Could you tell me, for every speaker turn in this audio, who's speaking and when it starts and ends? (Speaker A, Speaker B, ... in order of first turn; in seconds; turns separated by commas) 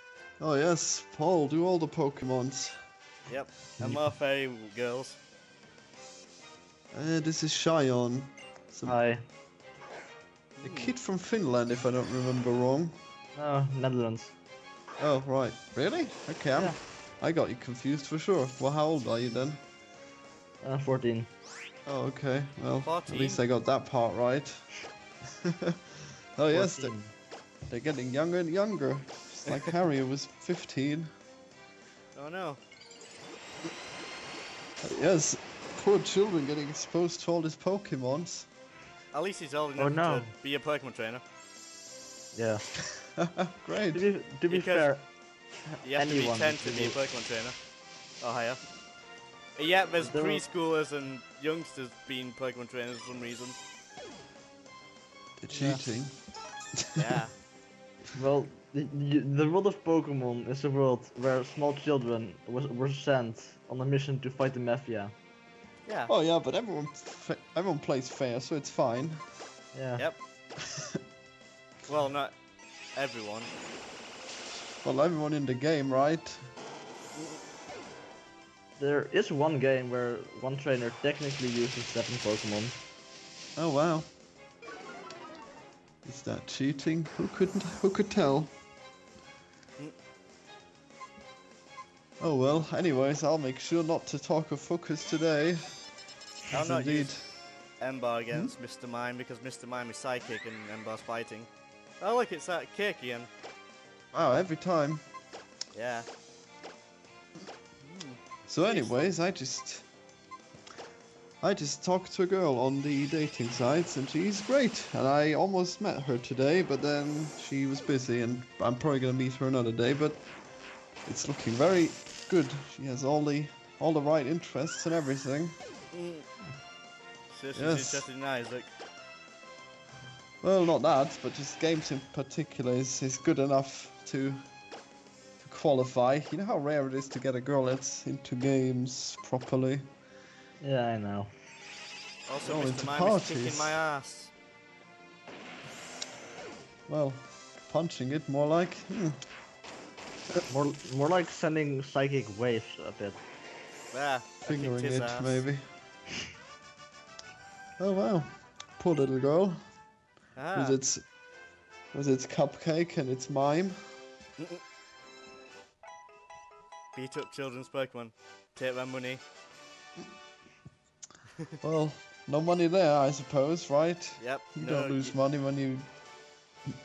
Speaker A: 0.4-2.8, Speaker B: 3.3-5.2, Speaker A: 6.9-9.0, Speaker C: 8.9-9.2, Speaker B: 10.6-10.9, Speaker A: 10.6-13.0, Speaker C: 13.4-14.3, Speaker A: 15.0-19.6, Speaker C: 20.6-21.3, Speaker A: 21.9-24.6, Speaker B: 22.8-23.4, Speaker A: 25.4-26.9, Speaker C: 26.5-27.1, Speaker A: 27.7-31.1, Speaker B: 32.1-32.6, Speaker A: 34.8-38.5, Speaker B: 39.1-41.2, Speaker C: 39.8-40.3, Speaker C: 42.3-42.6, Speaker A: 43.1-44.0, Speaker C: 43.9-45.1, Speaker B: 44.5-44.9, Speaker C: 45.8-47.0, Speaker B: 45.8-47.6, Speaker B: 48.2-48.6, Speaker B: 49.6-53.6, Speaker C: 50.0-50.4, Speaker A: 55.4-56.2, Speaker C: 55.5-55.8, Speaker A: 56.8-57.1, Speaker B: 57.0-57.3, Speaker C: 58.1-65.1, Speaker B: 65.9-66.1, Speaker A: 66.1-69.2, Speaker C: 69.7-70.0, Speaker A: 70.6-71.0, Speaker B: 71.9-72.3, Speaker B: 73.0-73.5, Speaker A: 74.8-76.4, Speaker C: 78.8-82.8, Speaker A: 83.6-84.1, Speaker A: 86.0-88.5, Speaker A: 92.2-95.6, Speaker B: 96.5-97.1, Speaker A: 96.5-97.3, Speaker B: 97.8-103.3, Speaker A: 104.1-105.0, Speaker B: 105.7-106.1, Speaker B: 107.8-109.1, Speaker A: 108.5-109.9, Speaker A: 111.4-120.2, Speaker A: 121.1-125.6, Speaker B: 125.9-126.2, Speaker B: 127.3-128.7, Speaker A: 127.5-128.1, Speaker A: 130.4-134.4, Speaker A: 135.4-139.9, Speaker C: 140.6-141.3, Speaker B: 142.3-144.3, Speaker A: 142.5-143.8, Speaker A: 146.9-149.2, Speaker C: 150.5-153.2, Speaker B: 153.9-155.4, Speaker A: 154.4-155.6, Speaker A: 157.8-159.6, Speaker B: 160.4-160.8, Speaker A: 160.5-161.1, Speaker A: 161.9-163.8, Speaker B: 166.9-169.2, Speaker A: 171.6-175.9, Speaker B: 174.2-175.2